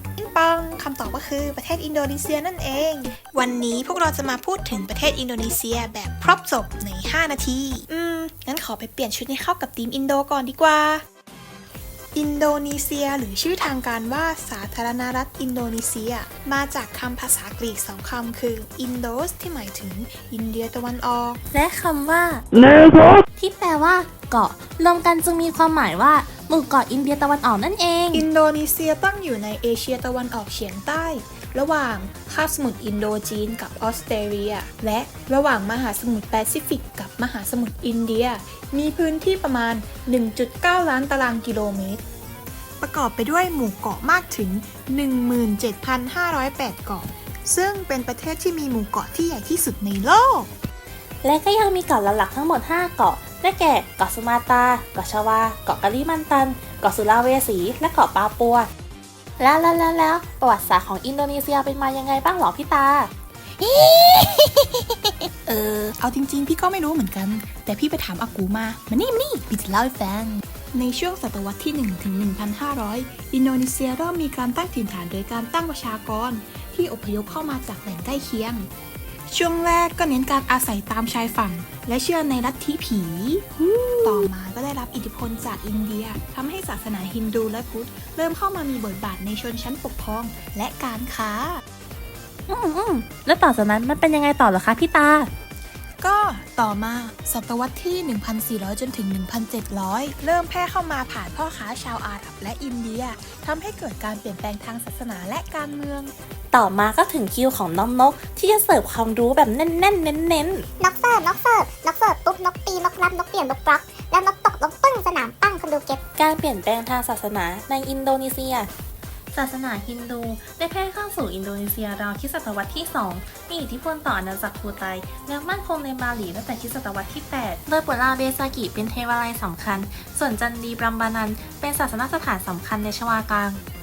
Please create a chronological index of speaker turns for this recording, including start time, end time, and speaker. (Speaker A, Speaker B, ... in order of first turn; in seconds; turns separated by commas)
Speaker A: 0.2-11.0, Speaker A: 12.1-21.4, Speaker B: 21.5-22.4, Speaker B: 23.4-28.2, Speaker A: 28.1-42.0, Speaker A: 42.8-50.5, Speaker B: 51.2-58.7, Speaker B: 59.4-64.1, Speaker B: 65.5-65.9, Speaker A: 66.0-78.7, Speaker A: 79.3-83.5, Speaker B: 83.6-84.3, Speaker A: 84.0-91.6, Speaker B: 92.5-95.3, Speaker A: 96.0-106.1, Speaker B: 106.5-110.7, Speaker C: 110.8-116.0, Speaker B: 116.2-118.7, Speaker B: 119.3-133.6